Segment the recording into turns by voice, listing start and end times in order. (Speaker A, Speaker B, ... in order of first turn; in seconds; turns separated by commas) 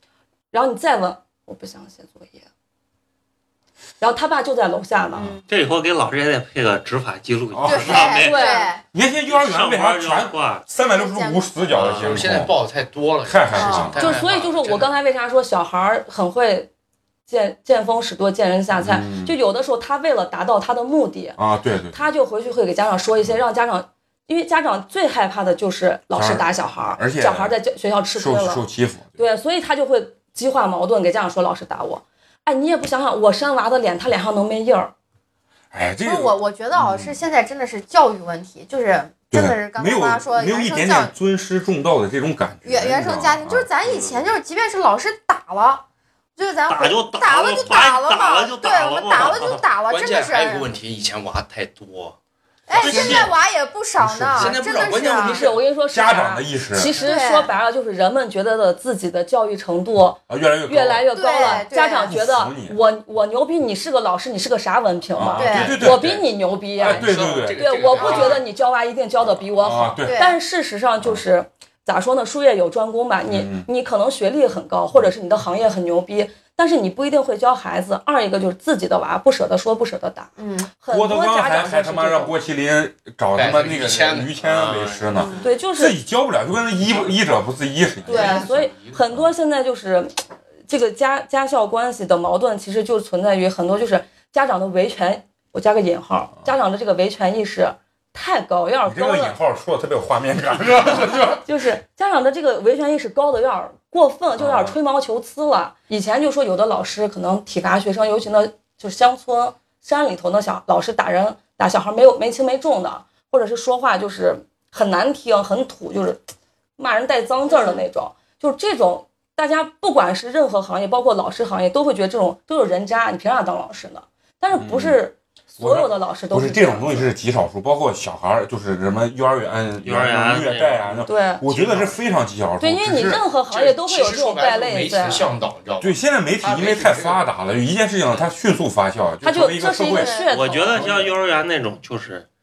Speaker A: 0.5-2.5, Speaker A: 4.0-5.4, Speaker B: 5.1-5.4, Speaker C: 5.5-8.6, Speaker D: 7.5-8.2, Speaker B: 7.7-8.8, Speaker A: 8.1-8.7, Speaker D: 8.9-12.5, Speaker C: 9.3-10.6, Speaker B: 10.8-11.9, Speaker E: 11.7-14.9, Speaker D: 13.2-14.1, Speaker B: 13.6-14.1, Speaker A: 14.0-16.7, Speaker A: 17.3-21.4, Speaker D: 18.7-19.4, Speaker D: 21.4-22.1, Speaker A: 21.9-28.6, Speaker D: 26.1-27.6, Speaker D: 28.1-29.2, Speaker A: 29.2-34.9, Speaker D: 35.7-37.2, Speaker B: 36.0-41.1, Speaker D: 39.3-43.7, Speaker B: 42.6-45.8, Speaker C: 43.8-44.3, Speaker B: 46.4-50.7, Speaker C: 46.7-49.6, Speaker E: 49.9-52.2, Speaker B: 52.7-55.4, Speaker E: 52.7-53.4, Speaker D: 52.8-53.3, Speaker D: 54.0-54.6, Speaker E: 54.3-55.6, Speaker A: 55.2-82.4, Speaker D: 55.9-57.0, Speaker B: 57.0-57.5, Speaker D: 60.3-62.8, Speaker B: 61.1-62.1, Speaker D: 65.1-66.3, Speaker B: 65.4-65.9, Speaker E: 65.6-66.0, Speaker D: 66.8-68.4, Speaker E: 66.8-68.5, Speaker D: 69.3-70.2, Speaker B: 70.0-70.4, Speaker D: 73.3-73.7, Speaker B: 80.4-80.7, Speaker D: 80.9-88.5, Speaker E: 83.3-85.3, Speaker B: 85.1-85.5, Speaker A: 85.4-86.0, Speaker E: 86.8-87.1, Speaker E: 88.0-89.1, Speaker A: 88.1-99.4, Speaker B: 88.1-88.5, Speaker D: 98.8-101.4, Speaker A: 101.4-116.2, Speaker D: 104.4-104.8, Speaker A: 116.8-127.1, Speaker B: 117.5-117.8, Speaker D: 124.5-125.0, Speaker D: 125.6-133.2, Speaker C: 129.8-131.0, Speaker A: 131.1-131.4, Speaker E: 131.5-131.9, Speaker A: 132.6-135.3, Speaker E: 133.4-137.2, Speaker D: 135.8-140.2, Speaker A: 139.2-140.9, Speaker B: 139.8-140.3, Speaker C: 140.3-142.3, Speaker D: 140.7-141.1